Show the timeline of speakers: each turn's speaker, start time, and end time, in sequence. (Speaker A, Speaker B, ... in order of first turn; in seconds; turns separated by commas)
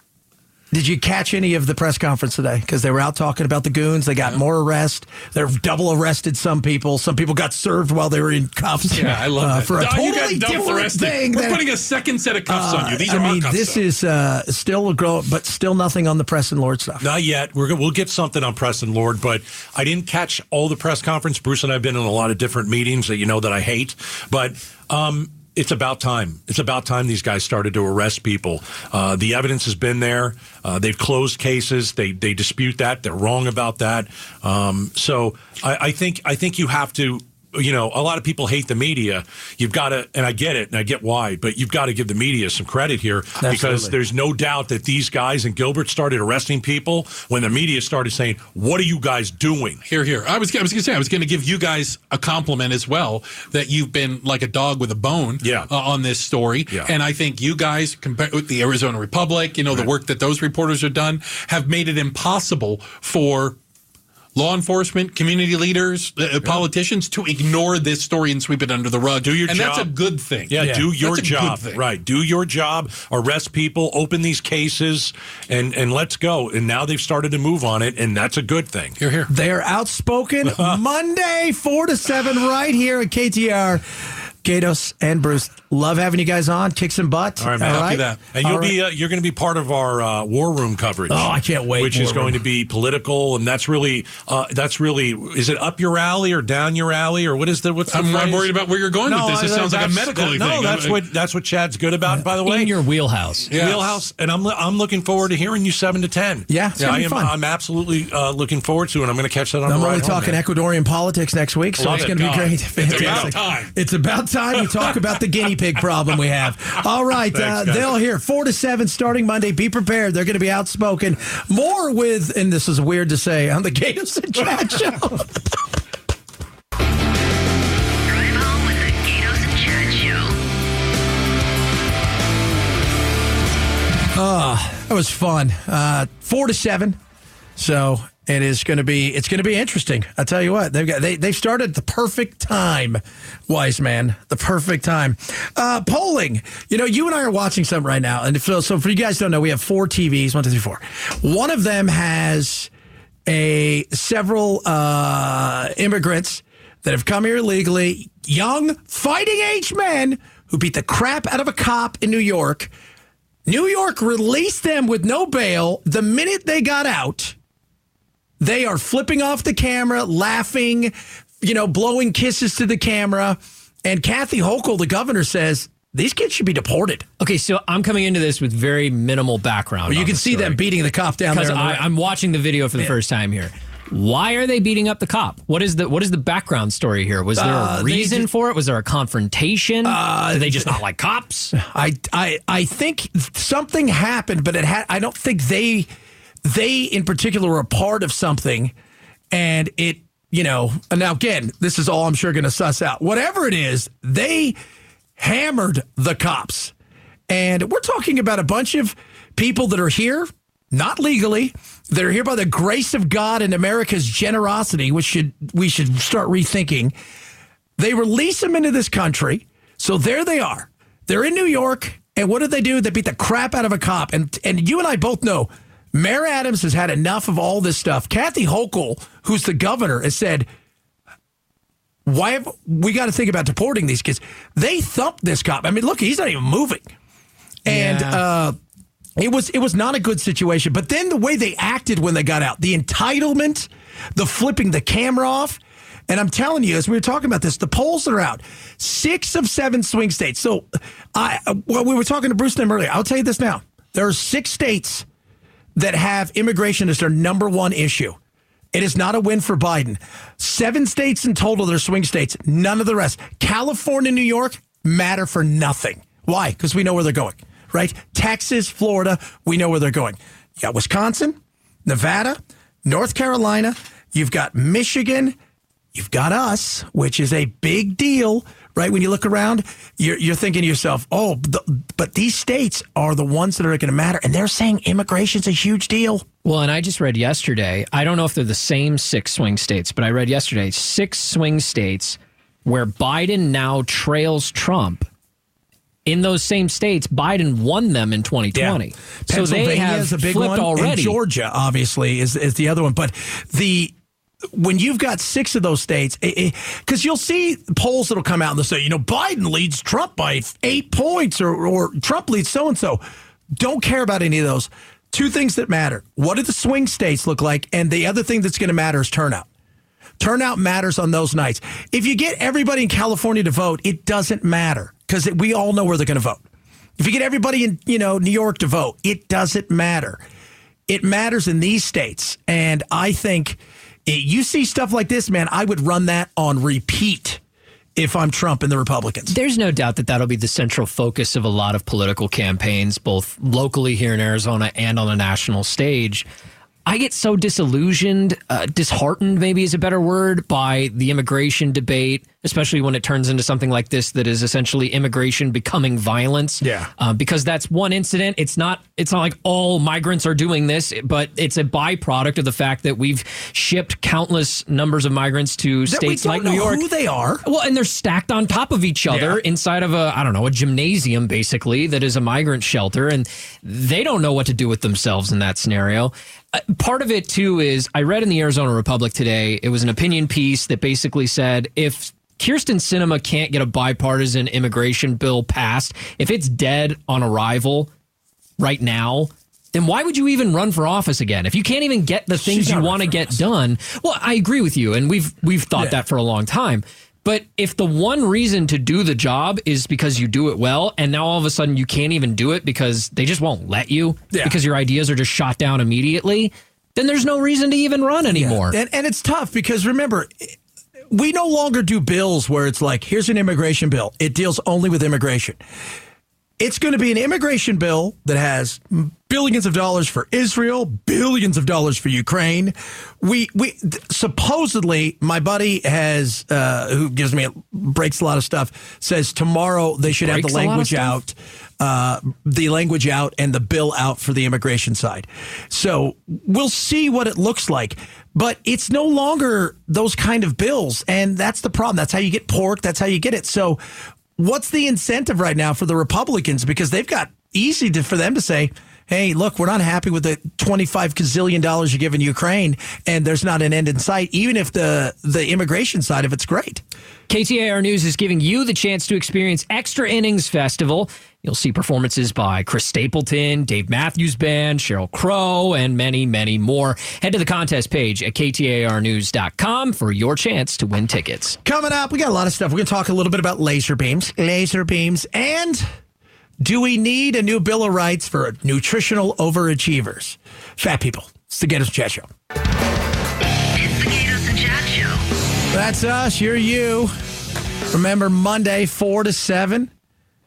Speaker A: 0.7-11.6, Speaker B: 8.9-13.8, Speaker A: 12.5-17.1, Speaker C: 17.0-49.8, Speaker A: 43.4-44.0, Speaker B: 49.9-63.6, Speaker C: 55.4-55.7, Speaker B: 64.3-71.8, Speaker C: 69.2-69.9, Speaker C: 70.5-79.0, Speaker A: 70.6-70.9, Speaker B: 79.0-79.3, Speaker A: 79.3-83.8, Speaker C: 80.4-80.8, Speaker A: 84.4-88.8, Speaker C: 87.4-98.5, Speaker B: 87.6-88.2, Speaker A: 91.1-92.4, Speaker B: 97.9-101.0, Speaker C: 99.0-102.7, Speaker D: 102.4-103.5, Speaker C: 103.5-110.4, Speaker B: 103.5-104.0, Speaker A: 106.5-107.3, Speaker A: 109.7-125.4, Speaker C: 111.8-113.4, Speaker B: 111.8-113.7, Speaker B: 114.6-115.1, Speaker C: 117.3-118.0, Speaker E: 128.1-130.4, Speaker A: 134.1-137.0, Speaker A: 137.6-152.7, Speaker A: 153.3-162.7, Speaker A: 163.4-167.3, Speaker A: 168.4-177.1, Speaker D: 177.2-180.6, Speaker A: 179.9-181.9, Speaker D: 181.3-191.5, Speaker A: 187.3-188.3, Speaker A: 189.8-190.8, Speaker A: 191.5-195.9, Speaker A: 196.4-198.7, Speaker A: 199.3-204.6, Speaker A: 205.2-206.7, Speaker A: 207.3-216.9, Speaker A: 217.8-230.5, Speaker A: 232.1-236.9, Speaker A: 237.6-238.6, Speaker D: 237.7-238.2, Speaker A: 239.2-255.1, Speaker A: 255.7-258.2, Speaker A: 258.7-275.4, Speaker A: 275.9-286.2, Speaker D: 286.4-295.1, Speaker D: 296.1-301.2, Speaker A: 298.5-303.9, Speaker A: 304.5-319.5, Speaker A: 320.2-326.4, Speaker A: 327.0-330.2, Speaker A: 330.9-337.4, Speaker A: 337.9-339.3, Speaker D: 339.3-346.2, Speaker D: 346.9-366.9, Speaker A: 356.6-356.9, Speaker A: 365.9-367.4, Speaker D: 367.4-387.9, Speaker A: 369.1-369.4, Speaker D: 388.6-408.8, Speaker A: 392.3-393.4, Speaker A: 404.3-404.6, Speaker A: 408.3-410.6, Speaker A: 411.1-415.6, Speaker A: 416.6-443.8, Speaker D: 430.1-431.2, Speaker A: 444.4-456.8, Speaker D: 457.3-471.6, Speaker A: 471.6-475.8, Speaker A: 476.6-482.3, Speaker E: 483.7-485.2, Speaker A: 485.7-487.1, Speaker A: 487.9-489.9